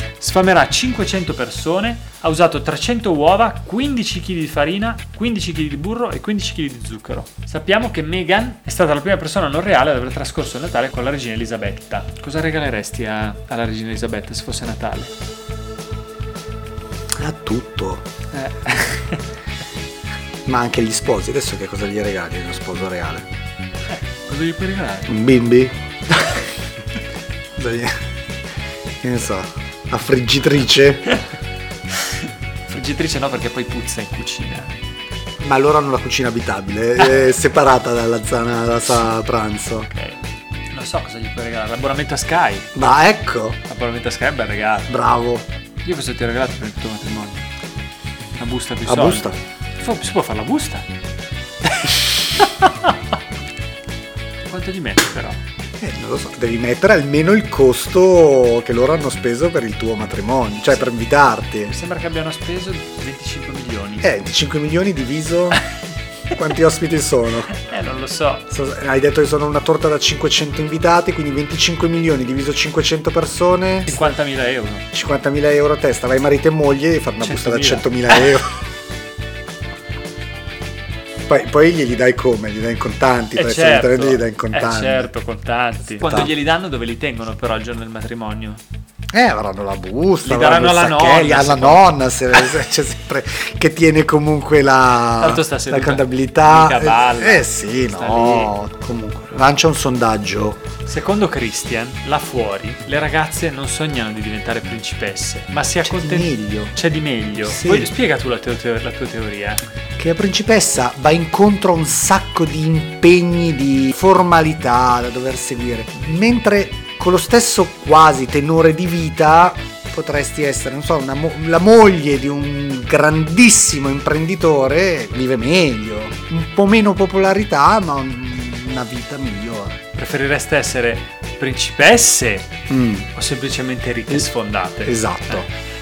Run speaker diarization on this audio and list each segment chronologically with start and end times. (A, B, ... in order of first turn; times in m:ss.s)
0:00.2-0:15.1 A
0:17.2-0:18.0 B
0:18.3-0:19.2 A
0:20.4-0:23.3 B
0:24.2-0:25.1 A
0:25.1-0:26.4 B
0:27.6-0:27.9 B
0:29.0-0:31.2 B
0:32.7-0:34.7 A
0:35.4-0:39.9 B
0:39.9-0:40.2 A
0:40.7-0:42.7 A
0:42.7-0:43.6 B
0:43.6-0:44.9 A
0:44.9-0:45.4 B
0:45.8-0:47.5 A
0:48.4-0:50.9 A
0:48.8-0:49.4 B
0:51.6-0:52.9 A
0:54.5-0:55.4 A
0:55.8-1:01.7 B
1:01.7-1:04.1 A
1:04.0-1:05.6 B
1:06.3-1:07.5 B
1:07.5-1:08.5 A
1:08.5-1:14.0 B
1:13.8-1:14.8 A
1:14.9-1:18.6 B
1:17.2-1:18.3 A
1:21.3-1:25.1 B
1:23.4-1:28.6 A
1:26.0-1:26.3 B
1:29.1-1:40.6 B
1:30.2-1:31.9 A
1:35.2-1:38.5 A
1:40.8-1:49.6 A
1:45.8-1:46.8 B
1:47.4-1:47.9 B
1:50.0-2:09.8 B
2:09.9-2:12.5 A
2:12.7-2:13.1 B
2:13.1-2:15.5 A
2:14.8-2:15.5 B